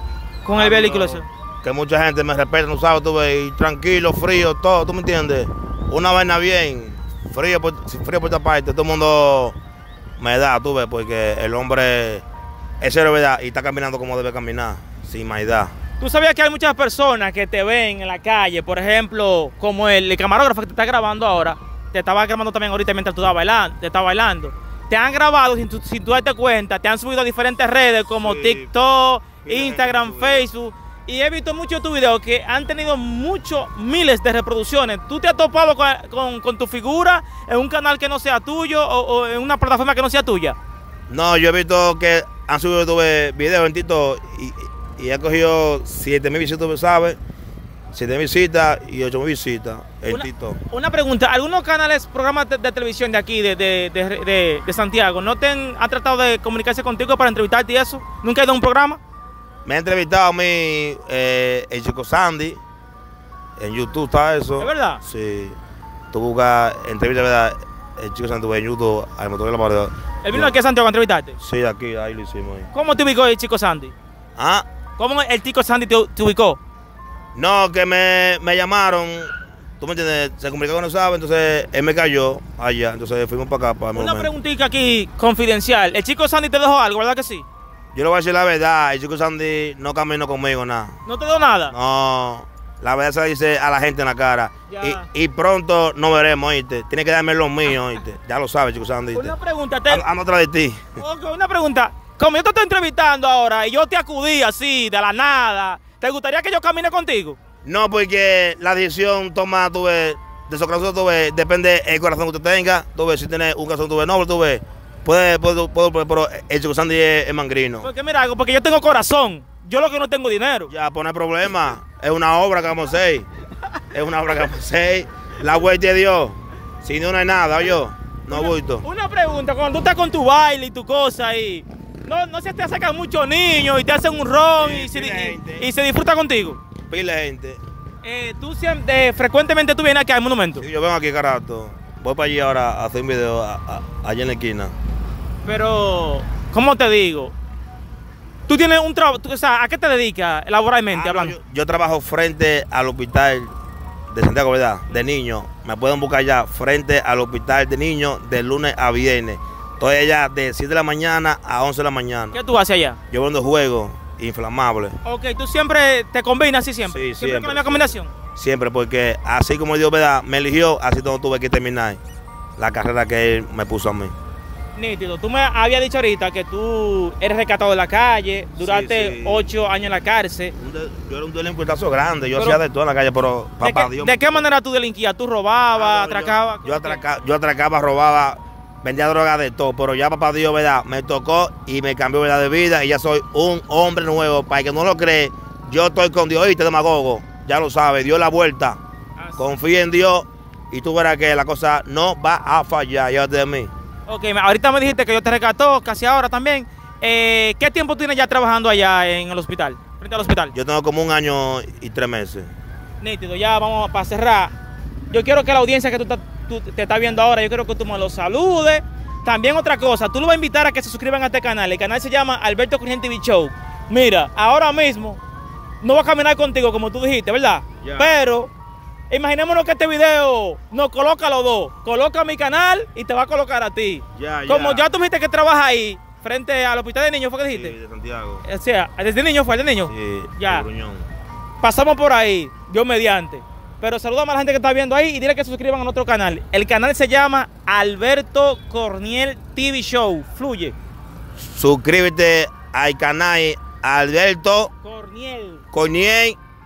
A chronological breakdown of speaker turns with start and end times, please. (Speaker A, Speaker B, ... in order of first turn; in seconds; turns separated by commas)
Speaker A: 0.4-1.3, Speaker B: 0.5-9.6, Speaker B: 10.2-12.2, Speaker B: 12.8-15.7, Speaker A: 16.0-40.5, Speaker B: 28.1-28.7, Speaker B: 29.4-30.5, Speaker B: 41.1-47.2, Speaker B: 47.9-50.6, Speaker A: 50.1-59.0, Speaker B: 59.6-62.6, Speaker B: 63.6-65.6, Speaker A: 64.6-65.0, Speaker B: 66.1-70.5, Speaker A: 70.2-71.4, Speaker B: 71.4-72.7, Speaker A: 72.7-73.9, Speaker B: 74.4-74.7, Speaker A: 75.0-76.6, Speaker B: 77.3-84.3, Speaker A: 83.9-87.4, Speaker B: 87.9-91.0, Speaker A: 91.0-91.7, Speaker B: 91.7-99.3, Speaker A: 94.7-95.0, Speaker A: 99.1-100.0, Speaker B: 99.9-101.0, Speaker A: 101.0-107.4, Speaker B: 107.6-117.9, Speaker A: 117.8-120.7, Speaker B: 120.7-123.3, Speaker B: 123.9-128.8, Speaker A: 128.3-136.6, Speaker B: 134.6-135.7, Speaker B: 136.9-137.6, Speaker A: 138.0-140.7, Speaker B: 140.5-144.7, Speaker A: 145.4-147.3, Speaker A: 148.5-151.3, Speaker B: 150.9-153.5, Speaker B: 154.1-162.4, Speaker A: 162.3-163.0, Speaker B: 163.1-165.0, Speaker A: 165.0-168.1, Speaker B: 166.8-172.0, Speaker B: 172.6-174.1, Speaker A: 174.7-180.5, Speaker B: 178.6-179.5, Speaker B: 180.6-184.4, Speaker A: 183.6-187.0, Speaker B: 185.8-198.8, Speaker A: 199.2-199.5, Speaker B: 199.4-203.7, Speaker A: 204.1-210.5, Speaker B: 210.5-212.5, Speaker A: 213.0-214.5, Speaker A: 215.1-225.2, Speaker A: 225.8-228.5, Speaker B: 227.8-228.2, Speaker A: 229.1-237.7, Speaker B: 234.2-234.9, Speaker B: 237.5-238.4, Speaker A: 238.4-240.7, Speaker B: 239.9-241.1, Speaker A: 241.6-250.7, Speaker B: 251.4-254.7, Speaker A: 254.8-255.6, Speaker B: 255.7-256.4